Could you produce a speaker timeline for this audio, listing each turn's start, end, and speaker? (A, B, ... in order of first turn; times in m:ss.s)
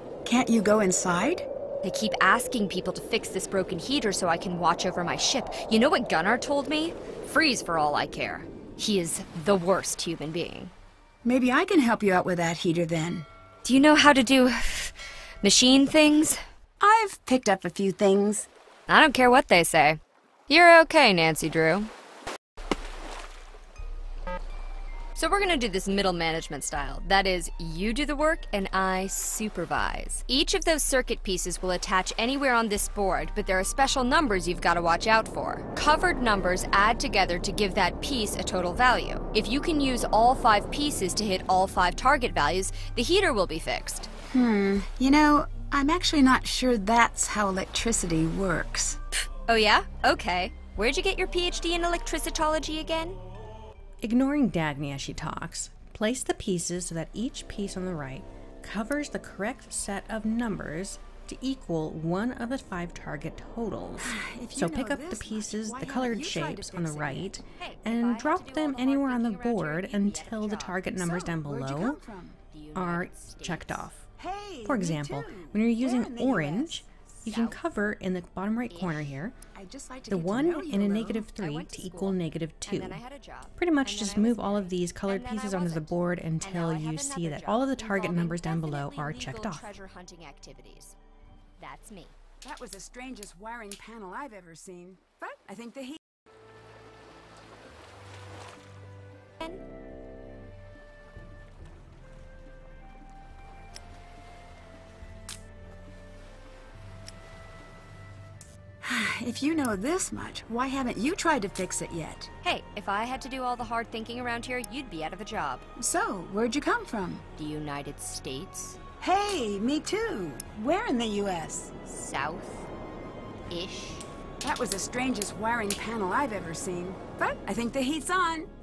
0:00.2-0:01.5 A
0:01.8-0:10.7 B
0:11.2-0:13.3 A
0:13.6-0:16.4 B
0:16.8-0:18.5 A
0:18.9-0:21.9 B
0:25.2-0:44.1 B
0:44.3-0:49.0 A
0:49.5-0:53.2 B
0:54.0-1:12.0 C
1:04.0-1:07.4 A
1:07.6-1:10.8 B
1:10.9-1:12.4 A
1:12.5-1:13.9 B
1:12.8-1:14.0 C
1:14.2-1:16.8 A
1:14.6-1:19.4 C
1:17.2-1:17.6 B
1:18.7-1:19.2 B
1:19.5-1:21.3 A
1:20.1-1:23.0 C
1:21.4-1:31.0 B
1:23.6-1:29.7 C
1:31.6-1:32.2 B
1:32.4-1:36.0 A
1:48.8-1:52.3 A
1:52.4-1:55.6 B
1:55.8-1:57.2 A
1:57.4-1:58.8 B
1:59.0-2:01.7 A
2:01.8-2:02.7 B
2:03.5-2:04.1 B
2:04.4-2:08.5 A